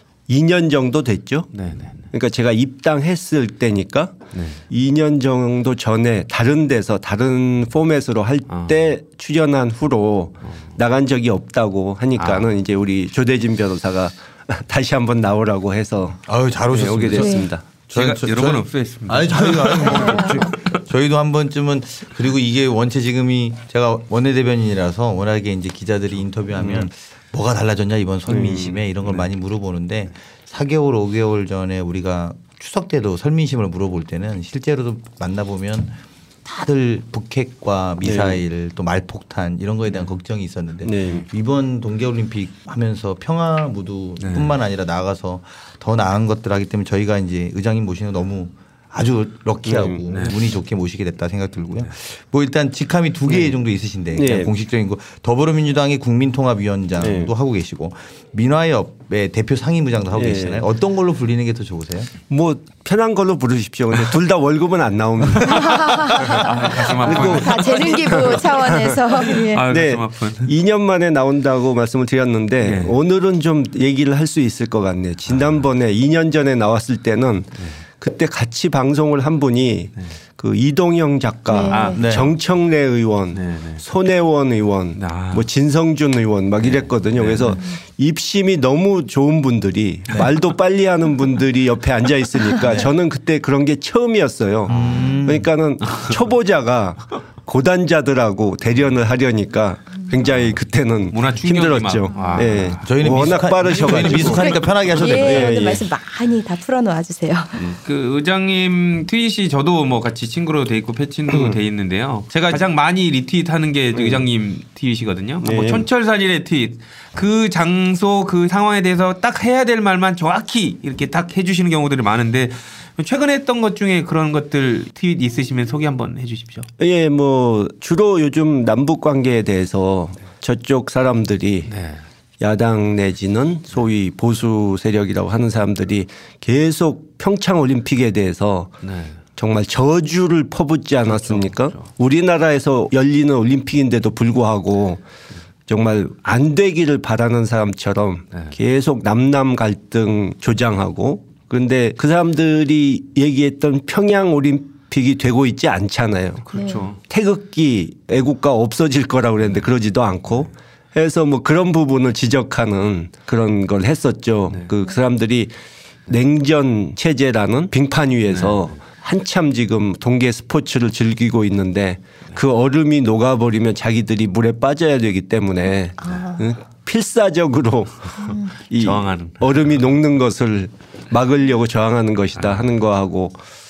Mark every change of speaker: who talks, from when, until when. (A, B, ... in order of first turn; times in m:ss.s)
0:00.3-0:01.5 A
0:01.5-0:02.0 B
0:02.1-0:17.6 A
0:04.3-0:04.6 B
0:08.5-0:08.8 B
0:12.2-0:12.5 B
0:16.3-1:02.1 C
0:17.1-0:17.5 D
0:17.9-0:20.8 B
0:19.8-0:20.4 D
0:26.6-0:26.8 B
0:28.3-0:28.8 A
0:29.0-0:29.3 B
0:38.0-0:38.4 A
0:40.8-0:41.2 A
0:44.2-0:44.6 B
0:49.6-0:50.0 A
0:50.1-0:50.4 B
0:54.1-0:54.5 A
0:57.0-0:57.3 A
1:00.1-1:00.7 A
1:02.3-1:09.1 A
1:05.5-1:06.5 D
1:06.3-1:08.5 B
1:07.1-1:09.6 D
1:09.2-1:10.5 B
1:09.7-1:45.8 A
1:12.6-1:13.0 B
1:15.3-1:15.6 B
1:21.5-1:22.0 D
1:21.7-1:22.1 B
1:22.0-1:22.3 C
1:23.3-1:23.8 B
1:25.0-1:25.5 B
1:26.6-1:27.6 B
1:32.6-1:32.9 C
1:34.7-1:35.5 C
1:34.7-1:35.1 B
1:35.8-1:36.1 B
1:40.2-1:40.6 B
1:41.1-1:44.6 B
1:42.8-1:45.5 C
1:44.2-1:47.8 D
1:47.6-2:06.7 B
1:51.3-1:51.6 A
1:54.0-1:54.2 A
1:55.4-1:55.9 A
2:06.8-2:11.7 A
2:11.7-2:12.0 B
2:12.4-2:18.7 A
2:18.8-2:19.2 B
2:19.4-2:25.0 A
2:21.0-2:21.9 B
2:25.7-2:36.4 A
2:36.4-2:37.0 B
2:36.5-2:36.9 D
2:37.0-2:45.5 A
2:46.1-3:03.4 A
2:48.3-2:48.7 B
2:56.0-2:56.4 D
2:58.7-2:59.7 B
3:02.4-3:02.7 B